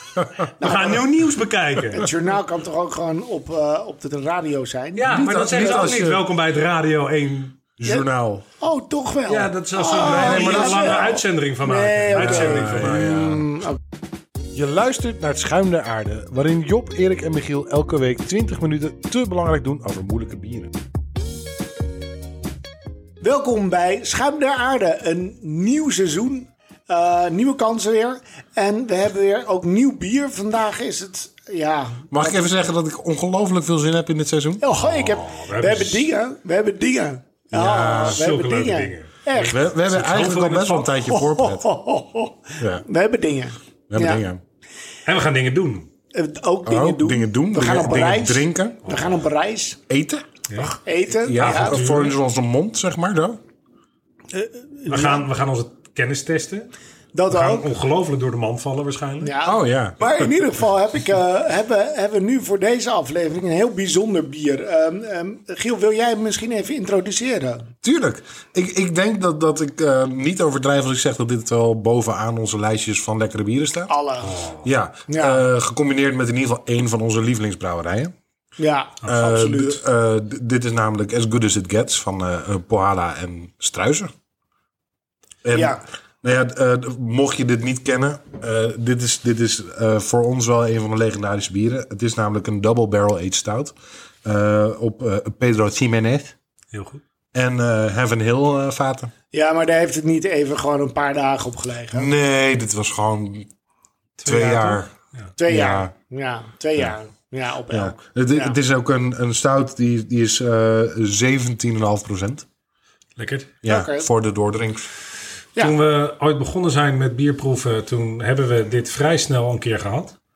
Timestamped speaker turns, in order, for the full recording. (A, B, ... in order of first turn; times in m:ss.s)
0:00.2-0:00.4 A
0:00.6-0:01.1 B
0:00.6-0:02.1 C
0:01.9-0:05.9 B
0:05.0-0:07.6 C
0:05.1-0:06.2 A
0:07.8-0:08.4 A
0:08.6-0:13.8 B
0:09.3-0:13.1 C
0:10.0-0:11.0 A
0:12.1-0:13.4 A
0:14.5-0:20.7 A
0:23.2-0:32.4 B
0:32.1-0:34.6 A
0:34.6-0:39.6 B
0:34.8-0:36.1 C
0:37.5-0:38.2 A
0:38.0-0:41.0 C
0:39.4-0:41.6 A
0:41.0-0:44.2 B
0:42.6-0:42.8 A
0:43.9-0:44.4 A
0:45.0-0:45.9 C
0:46.1-0:49.8 B
0:46.6-0:48.8 A
0:48.8-0:49.1 C
0:49.9-0:50.2 A
0:50.6-0:51.8 B
0:51.1-0:53.4 A
0:51.4-0:52.1 C
0:54.3-0:55.3 B
0:54.9-0:56.7 C
0:57.1-0:57.7 B
0:57.3-0:59.3 C
0:59.2-1:07.7 B
0:59.4-1:00.3 A
1:07.8-1:13.9 A
1:13.9-1:14.4 B
1:14.2-1:14.7 C
1:14.6-1:18.1 A
1:15.1-1:15.4 B
1:18.6-1:19.8 B
1:19.1-1:24.1 A
1:25.4-1:33.7 A
1:25.5-1:25.8 B
1:34.2-1:36.3 A
1:36.7-1:37.0 C
1:37.3-1:39.1 A
1:39.3-1:42.1 B
1:41.9-1:43.5 A
1:44.2-1:45.3 C
1:44.2-1:44.9 A
1:45.4-1:48.5 B
1:45.4-1:45.9 A
1:47.7-1:52.4 A
1:53.2-1:53.5 C
1:53.6-1:54.9 A
1:53.6-1:54.1 B
1:55.6-2:00.2 C